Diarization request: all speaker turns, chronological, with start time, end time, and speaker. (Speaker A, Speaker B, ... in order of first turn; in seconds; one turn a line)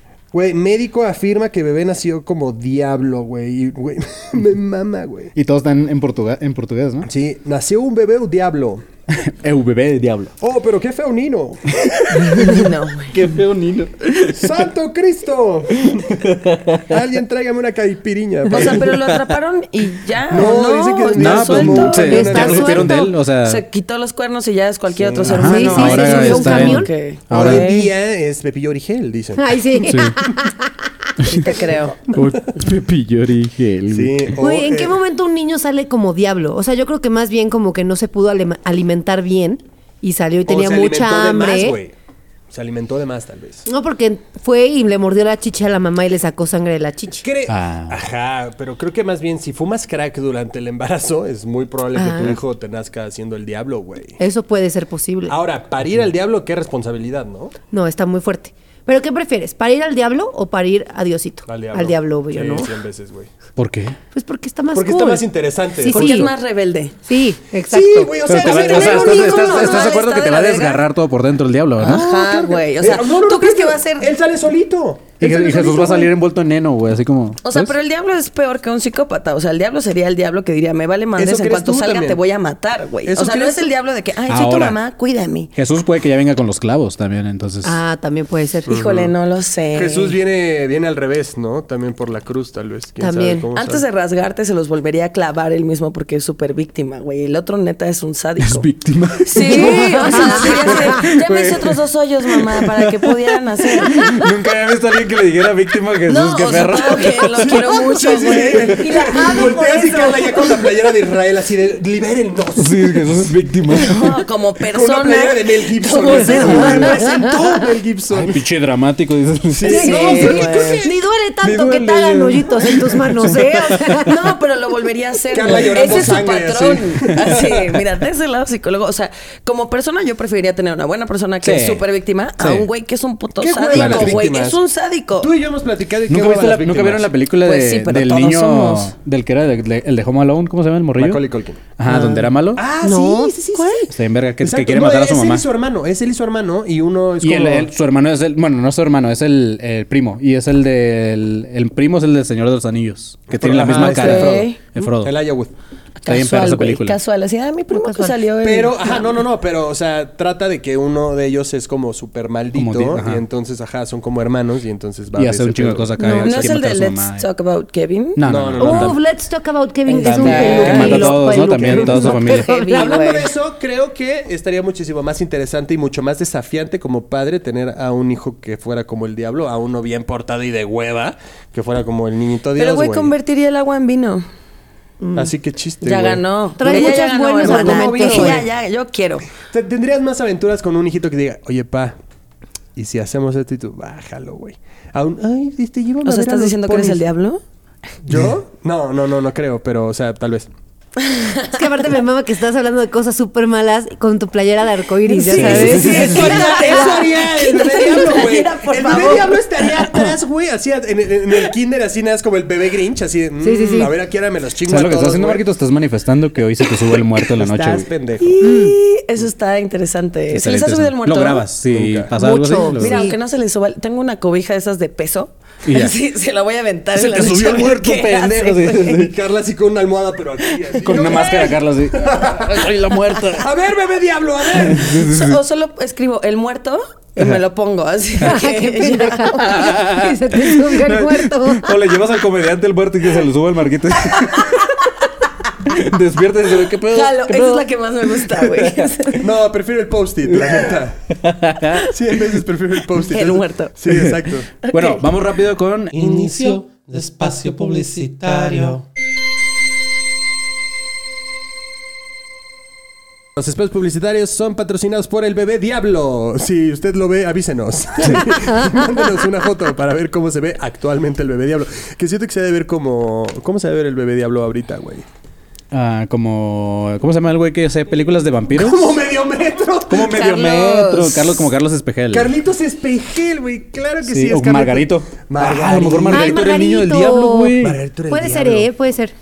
Speaker A: 0.3-5.3
Speaker B: 5.3-7.1
Speaker A: 7.0-8.8
Speaker B: 9.2-10.3
Speaker A: 10.4-12.4
Speaker B: 12.1-14.6
Speaker C: 12.3-13.1
Speaker A: 14.3-18.9
Speaker B: 15.9-16.9
Speaker C: 18.5-22.4
Speaker B: 18.6-19.3
Speaker A: 20.3-22.9
Speaker B: 21.1-23.6
Speaker D: 21.9-23.1
Speaker C: 23.4-27.9
Speaker A: 24.9-26.4
Speaker B: 25.2-27.7
Speaker D: 25.4-26.9
Speaker A: 27.3-30.0
Speaker D: 29.4-30.7
Speaker B: 29.9-30.2
Speaker B: 31.2-31.5
Speaker C: 31.3-32.0
Speaker B: 32.1-34.3
Speaker A: 33.9-35.0
Speaker D: 34.4-41.8
Speaker A: 40.4-41.9
Speaker A: 42.5-43.7
Speaker D: 43.7-47.2
Speaker A: 47.2-54.2
Speaker B: 47.5-48.0
Speaker D: 51.9-52.4
Speaker D: 54.2-55.4
Speaker A: 55.3-57.5
Speaker D: 57.7-62.7
Speaker A: 61.5-63.3
Speaker B: 63.6-64.0
Speaker D: 64.1-66.3
Speaker A: 64.7-66.3
Speaker C: 65.8-66.9
Speaker D: 67.0-68.1
Speaker A: 67.7-69.8
Speaker B: 68.2-72.1
Speaker C: 68.4-70.8
Speaker C: 71.8-74.1
Speaker A: 71.8-76.1
Speaker B: 75.2-77.7
Speaker C: 77.4-85.5
Speaker A: 81.2-82.2
Speaker A: 83.0-83.7
Speaker B: 84.3-84.8
Speaker B: 85.5-87.8
Speaker D: 87.6-88.7
Speaker A: 88.7-89.1
Speaker C: 88.7-90.2
Speaker A: 89.7-93.8
Speaker D: 93.0-93.5
Speaker C: 93.5-98.6
Speaker B: 98.4-107.7
Speaker C: 99.3-104.0
Speaker D: 99.5-100.8
Speaker C: 106.1-109.9
Speaker A: 107.4-113.3
Speaker D: 108.8-110.5
Speaker B: 112.6-114.2
Speaker C: 113.7-117.0
Speaker A: 114.7-118.3
Speaker D: 116.0-117.4
Speaker B: 116.4-116.8
Speaker B: 118.1-119.9
Speaker A: 119.5-121.0
Speaker C: 119.7-120.8
Speaker D: 119.7-124.2
Speaker B: 121.4-124.1
Speaker C: 124.0-135.3
Speaker A: 125.3-127.8
Speaker D: 125.5-126.2
Speaker B: 131.4-131.8
Speaker B: 132.4-132.7
Speaker A: 133.4-134.6
Speaker B: 133.7-134.3
Speaker A: 135.2-137.1
Speaker B: 136.1-141.2
Speaker C: 137.4-138.9
Speaker A: 141.0-141.6
Speaker B: 141.8-142.6
Speaker D: 141.9-142.2
Speaker A: 142.6-147.7
Speaker D: 142.8-143.8
Speaker B: 143.9-145.4
Speaker B: 147.2-155.2
Speaker A: 153.3-154.5
Speaker C: 153.6-154.6
Speaker A: 155.0-155.5
Speaker C: 156.0-159.2
Speaker B: 156.1-156.9
Speaker D: 157.7-158.2
Speaker A: 158.4-166.5
Speaker B: 162.5-163.2
Speaker B: 165.2-167.2
Speaker D: 166.0-166.3
Speaker C: 166.0-168.2
Speaker B: 168.2-169.0
Speaker A: 168.2-169.0
Speaker D: 168.6-173.2
Speaker C: 169.8-171.2
Speaker A: 170.0-183.1
Speaker B: 170.2-172.5
Speaker C: 172.2-173.3
Speaker C: 182.6-184.2
Speaker D: 185.0-185.3
Speaker A: 185.1-188.5
Speaker C: 185.8-189.3
Speaker D: 186.6-188.4
Speaker A: 189.5-191.9
Speaker A: 192.8-197.0
Speaker C: 196.0-197.4
Speaker A: 198.0-200.5
Speaker C: 201.0-201.6
Speaker D: 201.5-209.2
Speaker C: 205.1-209.8
Speaker B: 205.3-206.2
Speaker A: 205.4-215.4
Speaker D: 213.4-213.9
Speaker B: 214.7-217.9
Speaker A: 217.2-218.4
Speaker C: 218.2-221.4
Speaker D: 218.4-218.7
Speaker B: 220.3-223.0
Speaker A: 221.7-222.1
Speaker D: 222.1-223.2
Speaker C: 222.6-229.1
Speaker B: 225.7-225.9
Speaker B: 226.9-229.1
Speaker A: 228.8-235.1
Speaker B: 230.8-233.5
Speaker C: 231.1-231.4
Speaker B: 234.6-235.4
Speaker C: 234.9-239.5
Speaker D: 238.2-241.8
Speaker B: 239.3-244.8
Speaker B: 245.6-247.6
Speaker C: 246.9-249.2
Speaker B: 248.2-249.0
Speaker A: 249.2-251.0
Speaker B: 251.1-251.9
Speaker A: 251.8-254.5
Speaker C: 252.9-253.7
Speaker C: 254.6-255.0
Speaker B: 254.7-256.3
Speaker E: 255.9-258.8
Speaker A: 263.4-275.1
Speaker B: 275.7-278.9
Speaker A: 278.5-280.3
Speaker B: 279.9-282.3
Speaker C: 280.0-281.5
Speaker A: 282.1-286.5
Speaker B: 284.0-287.8
Speaker D: 286.1-289.1
Speaker A: 287.6-288.7